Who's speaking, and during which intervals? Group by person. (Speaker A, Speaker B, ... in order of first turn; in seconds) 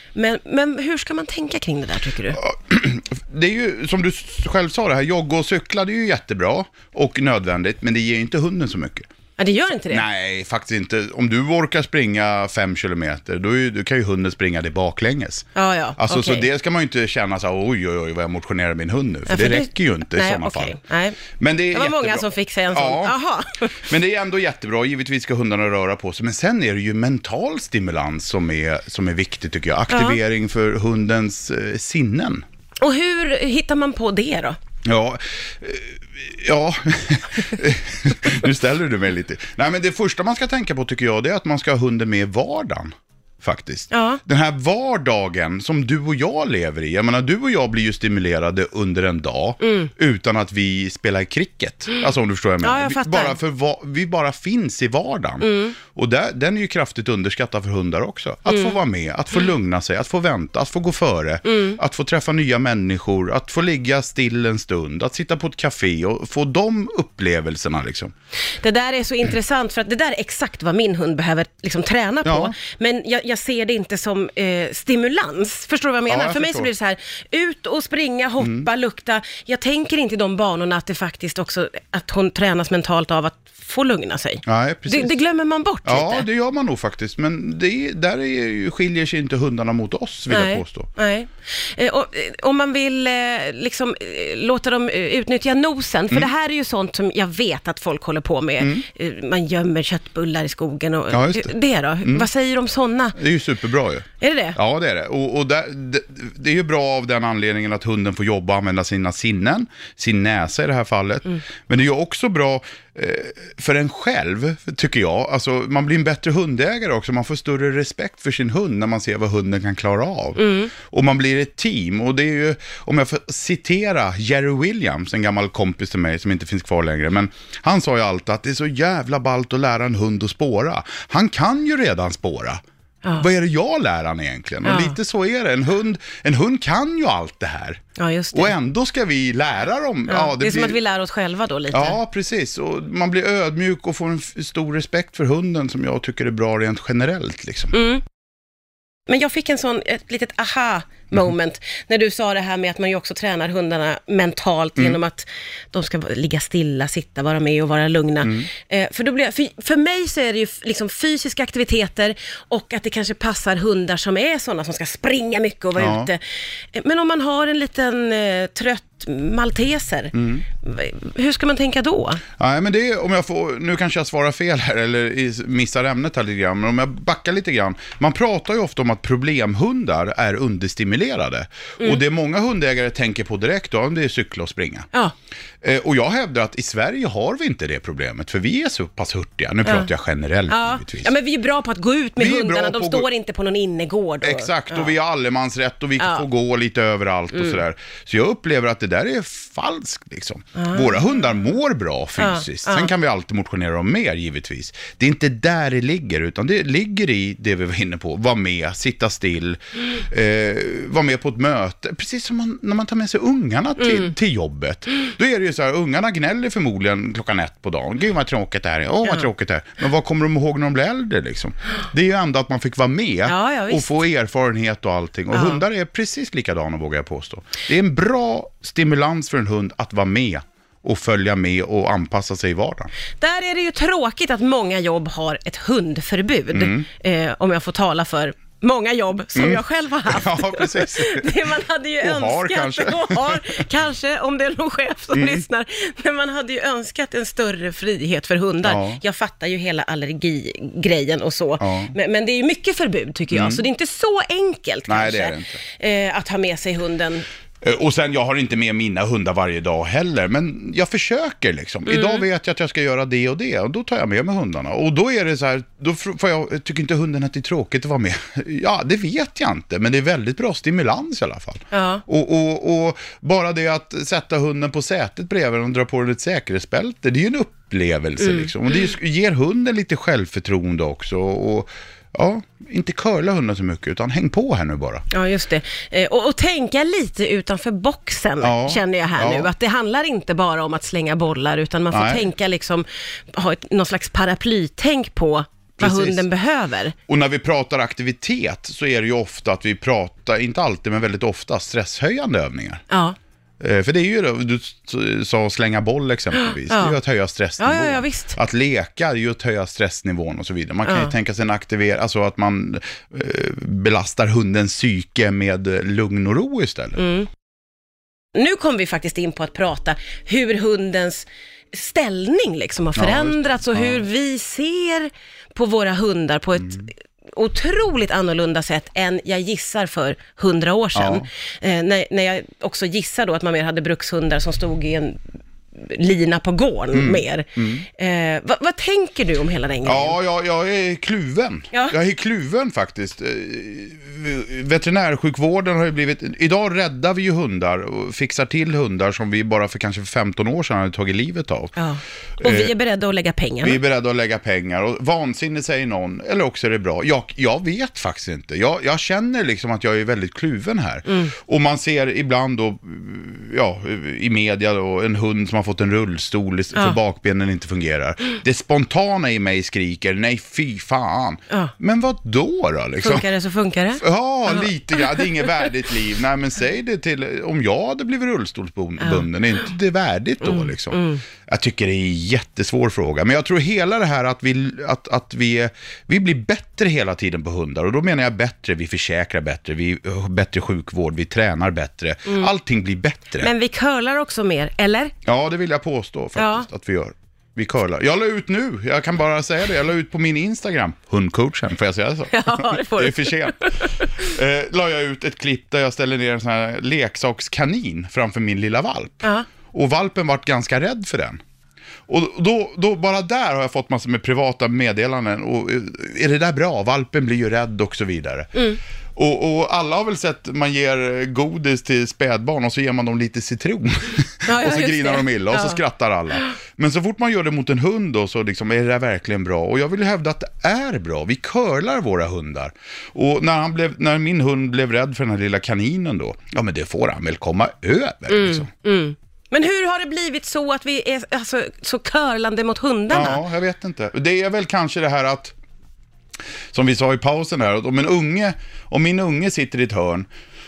Speaker A: 0.1-2.4, 9.4-10.1, 15.6-16.5, 19.3-21.2, 21.7-23.8, 29.9-30.2, 32.8-34.6, 43.9-44.2, 49.6-49.9, 52.6-53.4, 55.4-55.8, 58.5-58.8, 61.5-61.8, 68.6-86.3, 90.3-103.2, 104.2-104.6, 120.4-120.7, 134.6-135.0, 138.0-138.5, 140.1-142.0, 147.7-148.0, 149.1-166.2, 166.7-172.2, 190.5-194.9, 196.0-196.3, 200.6-201.1, 202.2-202.9, 213.8-214.1, 223.3-224.0, 225.3-225.6, 233.2-257.2, 261.9-262.2, 271.7-272.0, 278.2-278.5, 285.1-296.9, 302.9-303.2, 306.3-307.0, 307.6-308.4, 310.9-311.1, 317.0-317.3, 318.4-335.2, 335.8-340.2, 351.8-353.8, 361.1-361.3, 373.0-375.3, 379.0-379.3, 380.4-381.2, 393.4-395.1, 396.4-396.7, 402.3-404.3, 409.2-409.5, 418.6-418.8, 424.5-425.8, 438.3-443.4
Speaker B: 2.3-9.1, 9.9-20.8, 21.4-23.2, 23.8-32.4, 34.9-68.1, 72.2-72.6, 76.1-76.7, 78.4-78.7, 84.5-85.2, 85.8-90.9, 98.6-98.8, 101.1-102.3, 103.2-132.6, 133.2-137.8, 138.3-140.8, 141.7-147.7, 158.2-158.5, 165.8-166.1, 170.1-170.4, 172.4-184.9, 185.6-191.1, 192.2-193.1, 194.2-232.9, 236.5-236.8, 239.4-243.7, 245.1-245.4, 248.6-249.0, 251.6-251.9, 253.3-253.6, 254.9-255.6, 257.6-285.1, 288.4-289.5, 291.9-292.3, 295.8-296.2, 297.1-302.8, 303.6-317.0, 323.0-324.0, 326.6-326.8, 330.9-331.2, 336.9-337.9, 339.9-351.7, 352.4-352.7, 353.6-373.3, 374.0-393.5, 395.2-411.4, 412.1-418.5, 419.2-438.7, 443.1-445.6, 446.7-450.3